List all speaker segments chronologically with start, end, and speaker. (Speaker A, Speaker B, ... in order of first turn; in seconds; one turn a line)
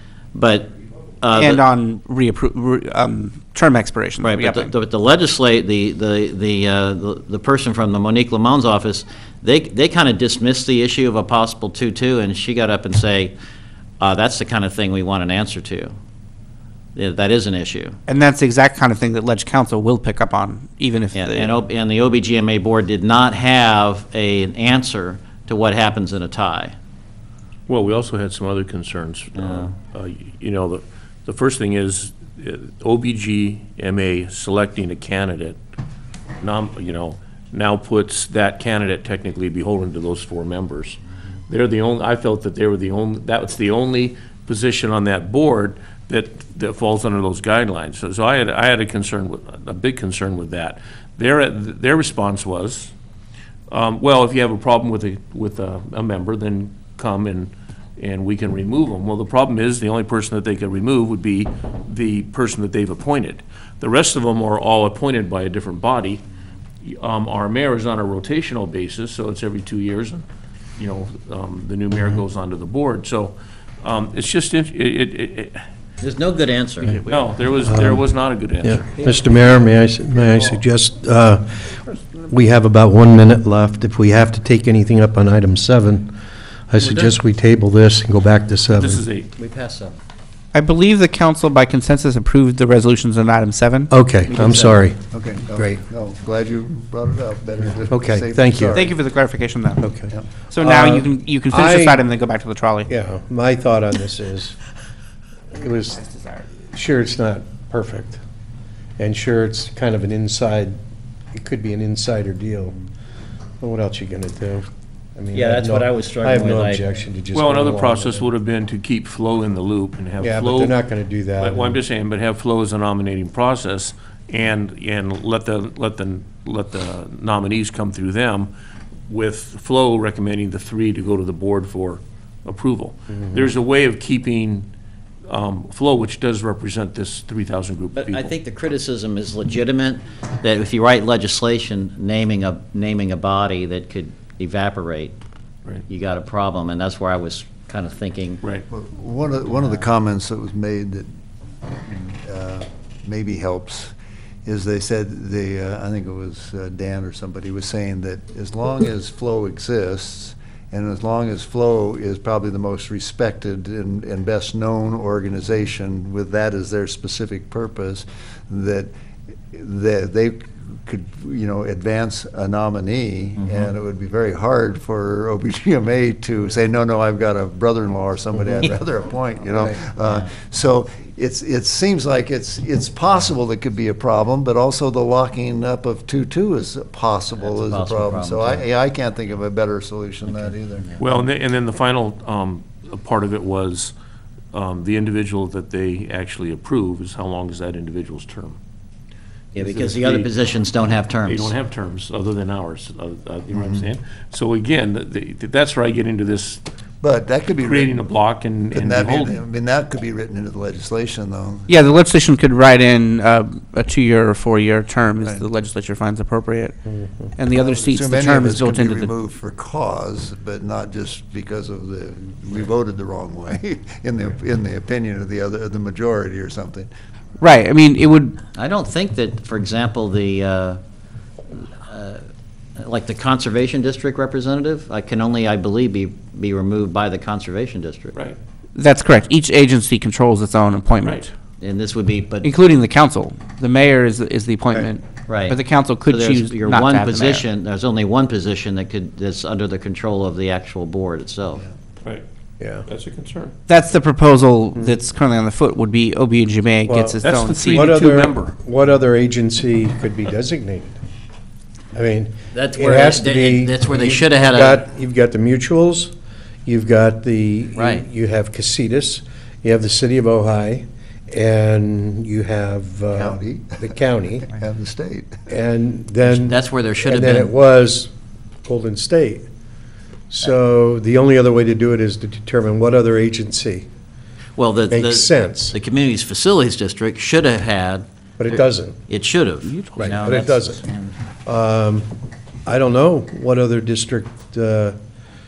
Speaker A: 0.3-1.6
Speaker B: 1.3-4.7
Speaker A: 4.2-13.3
Speaker A: 14.0-15.9
Speaker A: 17.0-18.0
Speaker B: 18.1-21.6
Speaker A: 21.1-26.8
Speaker C: 27.7-35.6
Speaker A: 29.4-29.7
Speaker C: 36.4-52.9
Speaker C: 53.7-66.2
Speaker C: 66.8-70.2
Speaker C: 70.8-75.7
Speaker A: 76.0-77.0
Speaker C: 76.8-79.1
Speaker D: 77.7-78.0
Speaker D: 78.6-86.1
Speaker D: 86.7-89.0
Speaker C: 88.7-89.3
Speaker A: 89.4-90.0
Speaker B: 90.5-93.9
Speaker D: 93.9-95.8
Speaker A: 94.3-94.8
Speaker E: 95.1-99.0
Speaker D: 97.9-98.9
Speaker B: 98.7-99.9
Speaker D: 99.8-102.0
Speaker B: 100.5-102.9
Speaker D: 102.9-104.6
Speaker D: 105.5-106.1
Speaker D: 106.7-108.2
Speaker D: 109.0-110.8
Speaker D: 111.3-112.8
Speaker D: 113.6-118.3
Speaker A: 115.3-116.8
Speaker C: 117.3-120.8
Speaker D: 120.2-121.8
Speaker C: 121.4-128.5
Speaker C: 129.1-134.7
Speaker C: 135.3-138.3
Speaker A: 137.9-145.2
Speaker A: 145.9-148.4
Speaker E: 148.7-151.1
Speaker E: 151.8-153.9
Speaker E: 154.4-168.9
Speaker E: 169.5-191.0
Speaker A: 187.4-188.7
Speaker C: 191.0-193.9
Speaker C: 194.5-198.6
Speaker C: 199.6-200.3
Speaker A: 199.6-201.5
Speaker C: 201.3-206.7
Speaker E: 207.0-208.0
Speaker C: 207.6-209.4
Speaker E: 208.7-211.7
Speaker B: 211.7-216.8
Speaker D: 216.9-217.3
Speaker B: 217.4-219.1
Speaker E: 217.5-226.9
Speaker B: 227.4-228.4
Speaker A: 228.5-230.8
Speaker A: 231.5-232.3
Speaker A: 232.8-238.2
Speaker B: 238.8-241.3
Speaker A: 241.6-242.5
Speaker B: 242.4-247.4
Speaker A: 245.3-251.6
Speaker D: 252.6-252.8
Speaker C: 252.8-253.6
Speaker B: 253.7-257.9
Speaker D: 256.9-261.0
Speaker C: 257.2-258.6
Speaker D: 261.9-266.1
Speaker A: 262.5-264.9
Speaker D: 266.6-274.5
Speaker A: 267.8-268.1
Speaker E: 273.2-273.9
Speaker E: 274.5-275.4
Speaker D: 275.5-278.1
Speaker A: 276.2-277.5
Speaker D: 278.6-279.5
Speaker D: 280.3-283.9
Speaker A: 284.6-288.1
Speaker D: 284.9-285.8
Speaker D: 288.4-289.0
Speaker A: 289.1-291.1
Speaker B: 289.7-290.3
Speaker D: 290.0-290.8
Speaker D: 291.5-292.1
Speaker D: 292.7-295.0